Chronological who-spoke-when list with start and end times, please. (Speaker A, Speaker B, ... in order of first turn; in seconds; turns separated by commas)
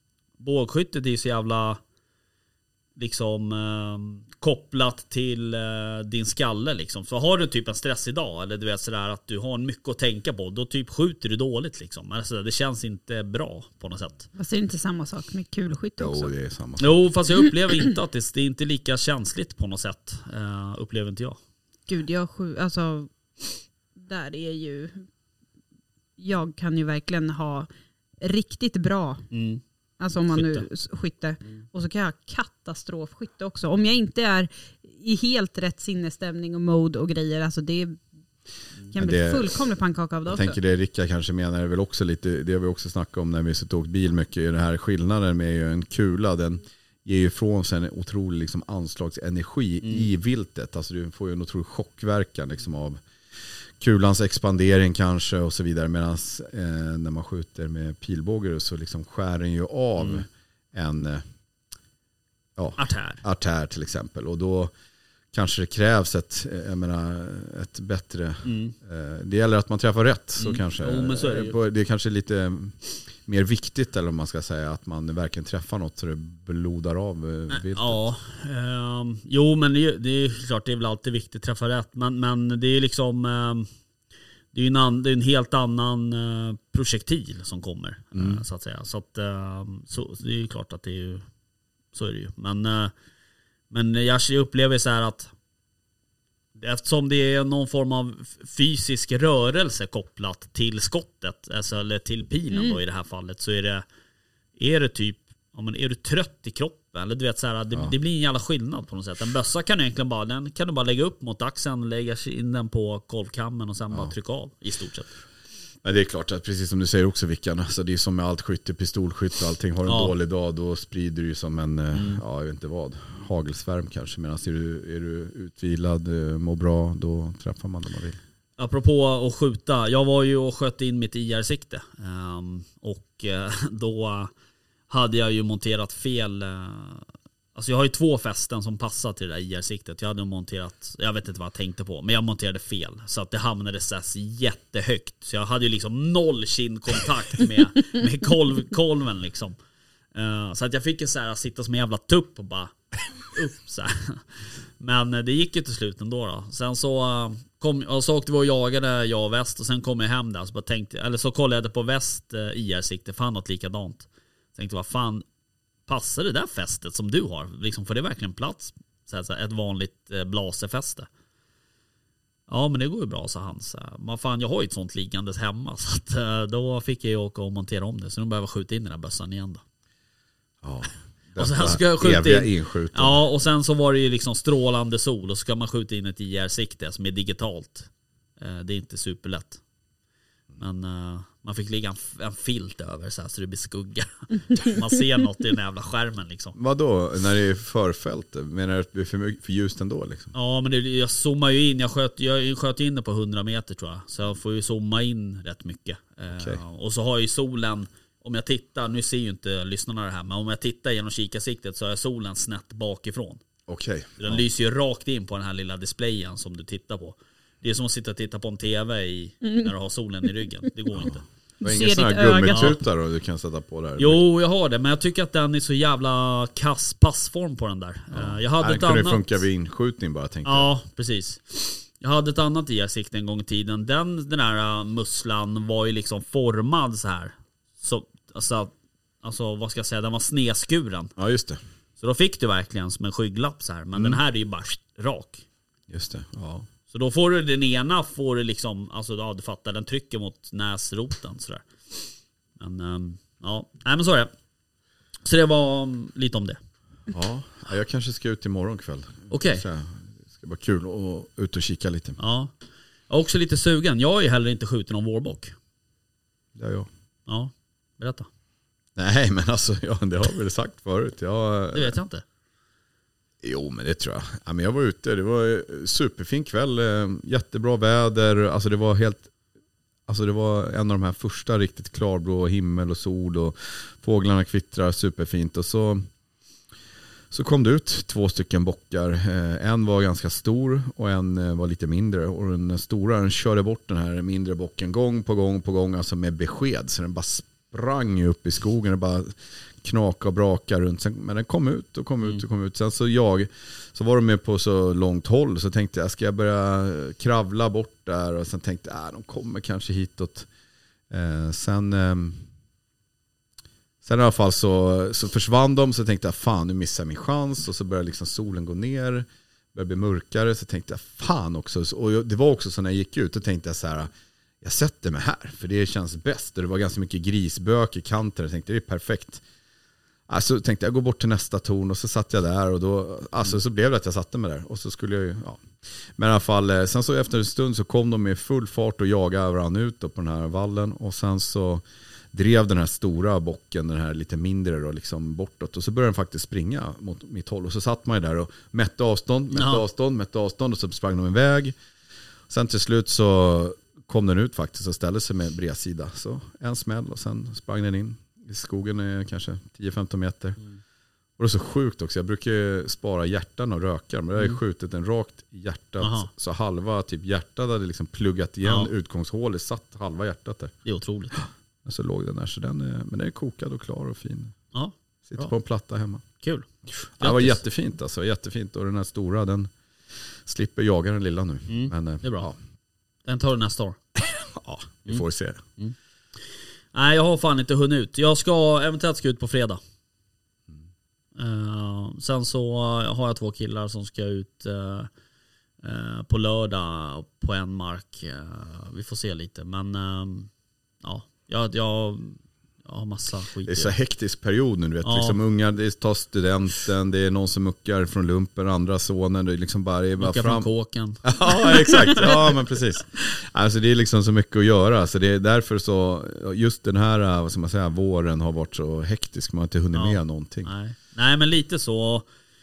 Speaker A: 0.4-1.8, Speaker A: 3.0-14.3, Speaker B: 14.3-16.3, Speaker C: 16.0-17.0, Speaker A: 16.8-21.4, Speaker B: 21.9-25.0, Speaker B: 26.2-27.7, Speaker B: 28.2-29.2, Speaker A: 29.3-29.6, Speaker B: 30.0-38.0, Speaker A: 30.3-30.7, Speaker B: 38.9-40.5, Speaker C: 38.9-39.5, Speaker C: 40.2-53.0, Speaker C: 53.8-61.2, Speaker A: 60.0-60.2, Speaker C: 62.6-64.7, Speaker A: 62.8-63.2, Speaker C: 65.3-78.0, Speaker A: 68.4-68.7, Speaker A: 70.4-71.6, Speaker A: 77.5-83.7, Speaker A: 84.5-91.2, Speaker C: 88.1-88.4, Speaker A: 91.9-92.9, Speaker A: 93.7-95.3, Speaker A: 96.5-103.8, Speaker B: 102.5-102.8, Speaker A: 104.6-115.1, Speaker C: 115.8-128.2, Speaker A: 119.8-120.1, Speaker A: 121.9-122.2, Speaker A: 128.6-134.3, Speaker A: 134.9-149.6, Speaker A: 150.1-154.2, Speaker A: 154.8-165.2, Speaker A: 165.9-171.1, Speaker A: 172.5-179.6, Speaker C: 180.6-183.2, Speaker A: 181.4-189.6, Speaker A: 190.6-196.6, Speaker C: 196.6-200.3, Speaker A: 200.3-213.4, Speaker C: 206.3-206.6, Speaker C: 213.7-214.4, Speaker A: 214.2-221.2, Speaker B: 219.4-219.7, Speaker C: 221.0-224.2, Speaker B: 221.6-222.8, Speaker A: 222.4-222.8, Speaker A: 224.0-229.4, Speaker C: 228.1-230.7, Speaker A: 230.4-241.1, Speaker C: 241.2-241.6, Speaker A: 242.0-245.4, Speaker C: 243.9-244.2, Speaker C: 245.9-246.7, Speaker A: 246.9-254.3, Speaker A: 255.2-256.6, Speaker C: 257.1-262.2, Speaker A: 259.3-259.6, Speaker A: 262.2-262.5, Speaker A: 263.1-265.5, Speaker C: 266.6-266.9, Speaker A: 267.3-268.3, Speaker C: 268.9-271.9, Speaker A: 271.7-272.2, Speaker C: 273.4-279.3, Speaker C: 280.1-286.1, Speaker C: 287.3-310.5, Speaker C: 311.1-312.4, Speaker C: 314.0-324.1, Speaker C: 324.6-329.4, Speaker C: 330.3-335.6, Speaker C: 336.2-351.7, Speaker A: 349.5-349.8, Speaker C: 352.5-360.6, Speaker C: 361.4-370.7, Speaker A: 366.0-366.3, Speaker A: 368.6-368.9, Speaker A: 370.8-371.4, Speaker C: 371.8-374.5, Speaker A: 374.7-375.5, Speaker C: 375.2-376.2, Speaker A: 376.4-376.7, Speaker C: 376.9-379.7, Speaker A: 377.2-377.6, Speaker C: 380.4-382.6, Speaker A: 381.7-382.5, Speaker A: 383.2-384.0, Speaker C: 384.2-385.6, Speaker A: 386.9-389.8, Speaker A: 391.4-395.1, Speaker A: 395.8-400.5, Speaker A: 401.0-403.9, Speaker C: 403.6-410.7, Speaker A: 405.0-405.4, Speaker A: 410.2-412.4, Speaker C: 411.2-420.7, Speaker B: 411.9-412.1, Speaker A: 419.9-422.3